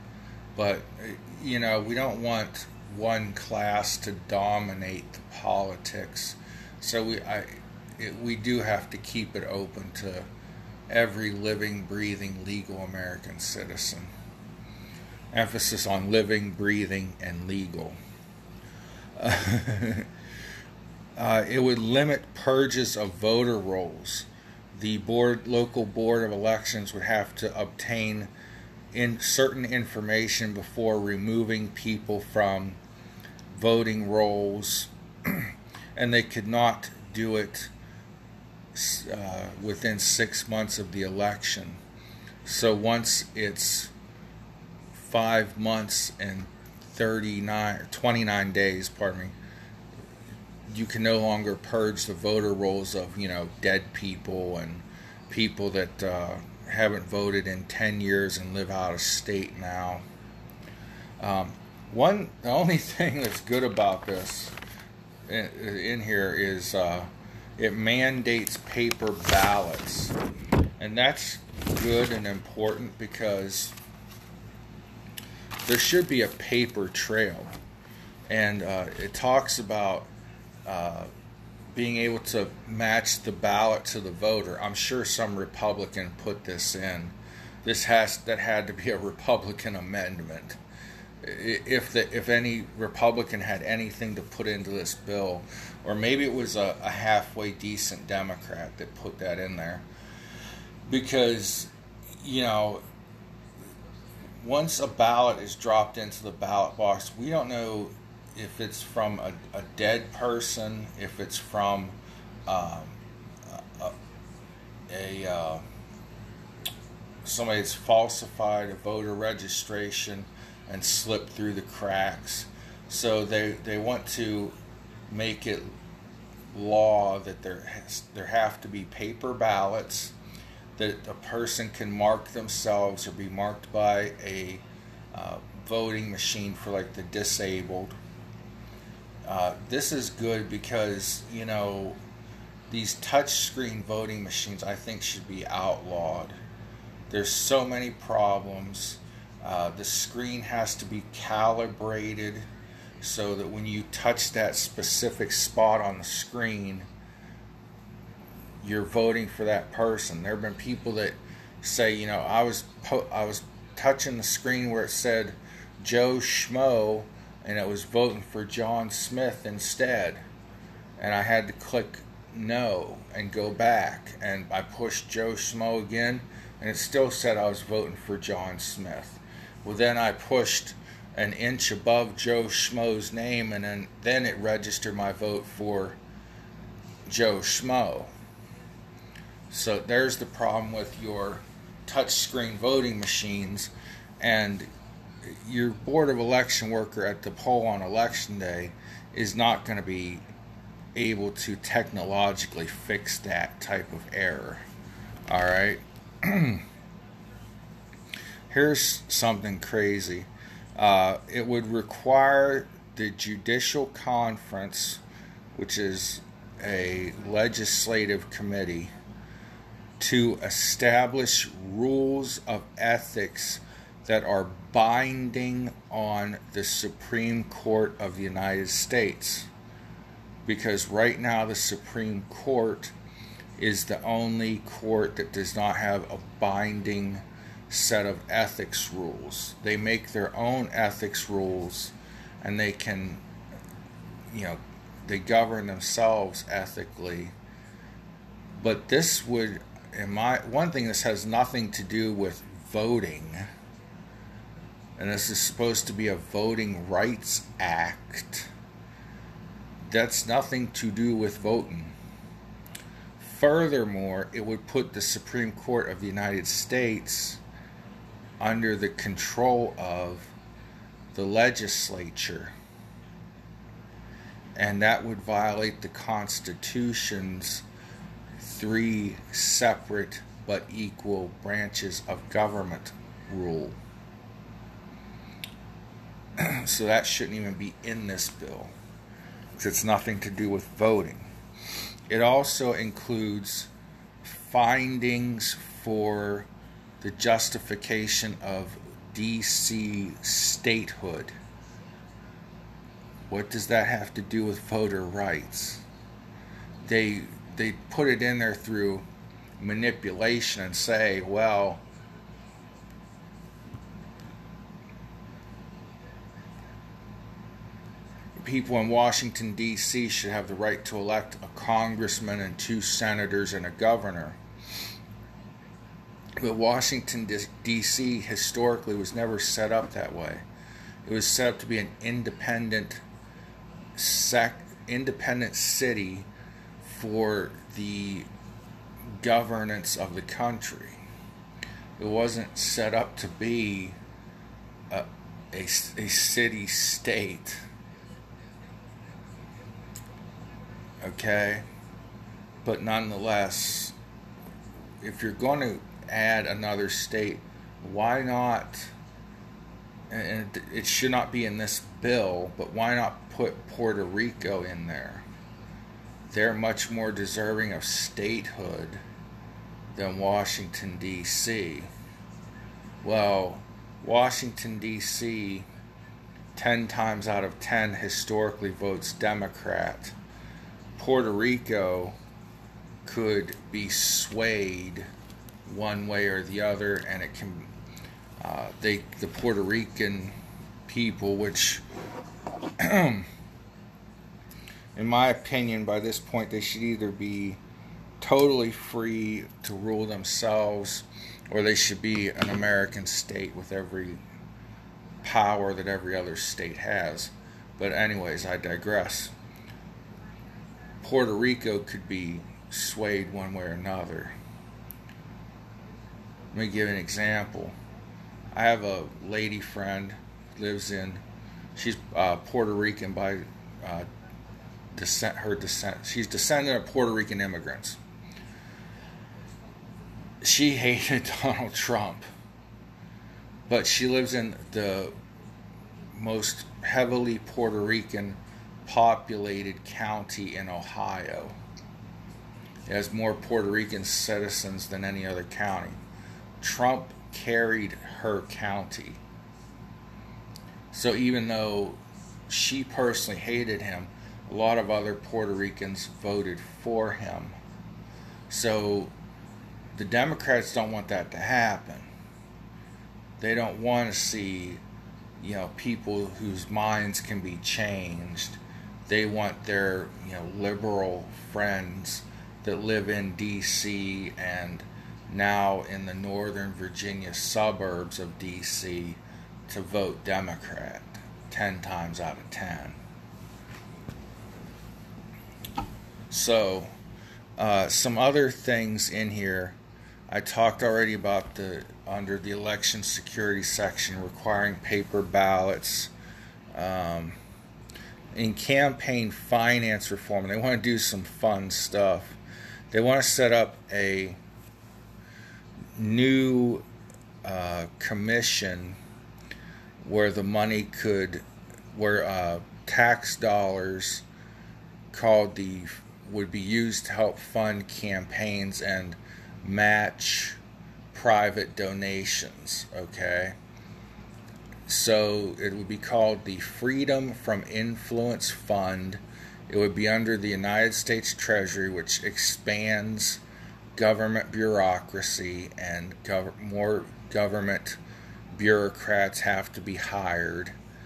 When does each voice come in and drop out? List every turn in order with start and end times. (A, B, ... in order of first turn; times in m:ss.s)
0:00.6-0:10.3 A
0:10.9-0:14.1 A
0:15.3-0:18.0 A
0:19.2-0:20.1 A
0:21.2-0:28.3 A
0:28.9-0:32.8 A
0:33.5-0:37.7 A
0:38.7-0:41.8 A
0:42.4-0:43.9 A
0:44.9-0:49.4 A
0:50.7-1:00.0 A
1:01.2-1:04.6 A
1:05.3-1:10.2 A
1:10.8-1:13.7 A
1:15.6-1:17.5 A
1:18.3-1:20.1 A
1:20.6-1:21.1 A
1:21.7-1:30.6 A
1:31.2-1:39.8 A
1:40.9-1:42.8 A
1:44.4-1:53.9 A
1:54.9-1:55.6 A
1:57.2-2:04.6 A
2:05.1-2:05.7 A
2:06.5-2:10.1 A
2:10.8-2:14.6 A
2:15.1-2:17.9 A
2:19.2-2:22.0 A
2:22.7-2:26.4 A
2:27.1-2:32.5 A
2:33.0-2:36.9 A
2:38.6-2:50.2 A
2:51.0-3:06.0 A
3:07.1-3:08.1 A
3:09.5-3:14.7 A
3:15.2-3:20.2 A
3:20.9-3:24.6 A
3:25.3-3:26.6 A
3:28.5-3:35.0 A
3:35.5-3:38.9 A
3:40.0-3:49.5 A
3:50.4-3:52.9 A
3:53.6-4:03.2 A
4:04.3-4:07.3 A
4:08.6-4:13.4 A
4:15.0-4:18.5 A
4:19.8-4:21.9 A
4:23.2-4:27.4 A
4:28.4-4:30.3 A
4:31.1-4:32.5 A
4:34.6-4:37.6 A
4:38.4-4:43.8 A
4:46.4-4:48.7 A
4:49.6-4:51.3 A
4:52.1-4:53.7 A
4:54.2-4:56.5 A
4:57.0-5:01.4 A
5:03.3-5:05.8 A
5:06.8-5:09.0 A
5:09.6-5:11.8 A
5:18.4-5:24.4 A
5:26.4-5:30.4 A
5:31.0-5:33.0 A
5:34.0-5:36.3 A
5:36.8-5:38.3 A
5:39.2-5:41.0 A
5:42.0-5:44.0 A
5:44.9-5:47.6 A
5:51.0-5:51.6 A
5:52.6-5:53.9 A
5:55.0-5:58.9 A
6:00.1-6:05.2 A
6:06.3-6:09.0 A
6:09.9-6:11.9 A
6:13.0-6:15.7 A
6:16.6-6:20.1 A
6:21.0-6:22.2 A
6:23.0-6:25.1 A
6:25.6-6:27.7 A
6:28.4-6:30.4 A
6:30.9-6:31.8 A
6:32.8-6:33.3 A
6:35.0-6:37.6 A
6:38.2-6:44.2 A
6:45.2-6:49.3 A
6:51.0-6:54.4 A
6:56.5-6:57.8 A
6:58.5-7:01.2 A
7:01.8-7:04.1 A
7:04.9-7:08.0 A
7:10.4-7:12.2 A
7:13.7-7:15.1 A
7:16.1-7:21.6 A
7:22.9-7:26.0 A
7:26.6-7:29.2 A
7:30.9-7:37.6 A
7:38.5-7:39.1 A
7:39.9-7:42.1 A
7:43.4-7:44.8 A
7:45.4-8:03.0 A
8:06.3-8:06.9 A
8:07.6-8:09.8 A
8:10.3-8:16.1 A
8:16.7-8:17.4 A
8:18.3-8:22.4 A
8:22.9-8:24.4 A
8:25.9-8:26.8 A
8:27.4-8:29.0 A
8:30.0-8:34.2 A
8:35.1-8:40.6 A
8:41.1-8:43.6 A
8:44.9-8:53.4 A
8:53.9-8:58.0 A
8:58.5-9:00.8 A